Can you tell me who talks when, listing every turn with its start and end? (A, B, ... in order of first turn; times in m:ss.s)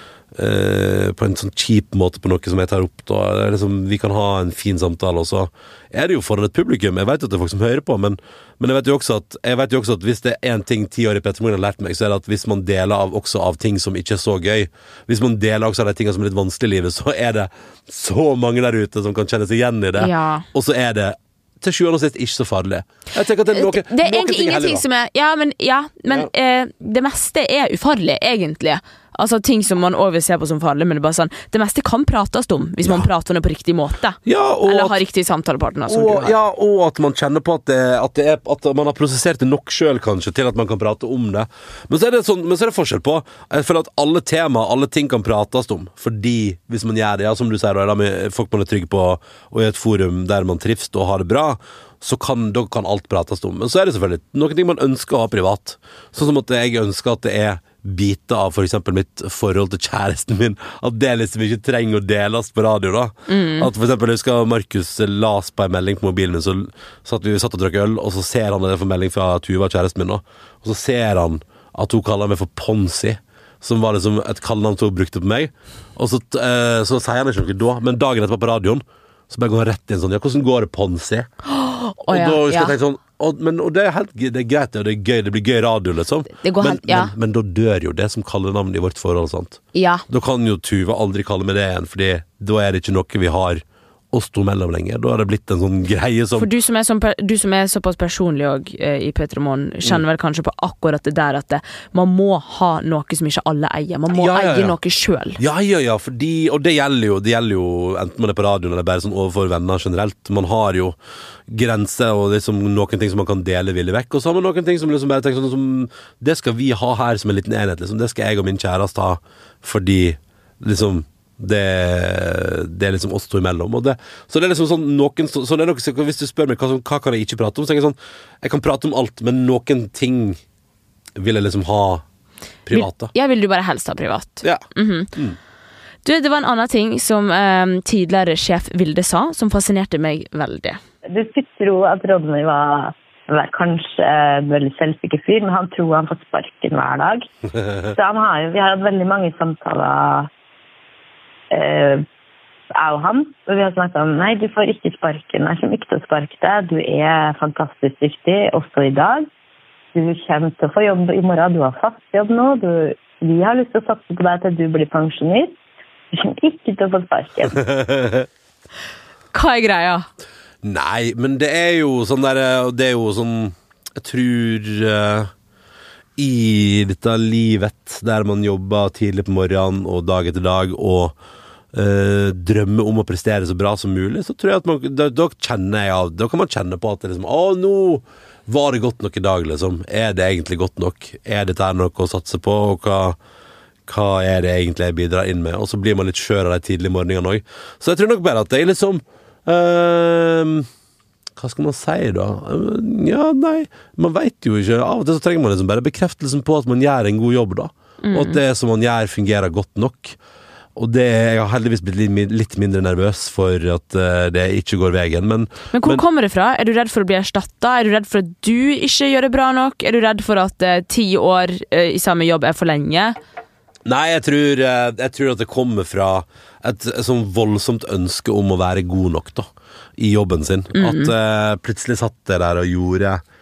0:00.4-0:24.8 A
0:20.0-0:20.5 B
0:23.5-0:36.4 B
0:34.2-0:35.0 A
0:35.9-1:21.3 A
1:03.3-1:03.7 B
1:21.4-1:22.7 B
1:22.1-1:36.5 A
1:26.4-1:27.1 B
1:29.7-1:30.0 B
1:36.4-1:45.4 B
1:44.1-1:44.8 A
1:45.4-1:51.0 A
1:51.5-2:10.4 A
2:11.2-2:12.0 A
2:12.7-2:13.1 A
2:12.7-2:15.1 B
2:16.0-2:20.8 B
2:21.1-2:27.3 C
2:27.8-2:30.3 C
2:31.5-2:32.0 C
2:32.8-2:39.3 C
2:39.9-2:45.5 C
2:46.1-2:47.6 C
2:47.7-2:48.3 A
2:49.3-2:50.1 B
2:50.6-2:55.3 A
2:56.2-3:01.2 A
3:01.7-3:13.2 A
3:13.9-3:20.7 A
3:21.4-3:30.2 A
3:28.0-3:28.4 B
3:30.8-3:36.0 A
3:35.7-3:43.2 B
3:43.9-3:53.2 A
3:50.7-3:51.1 B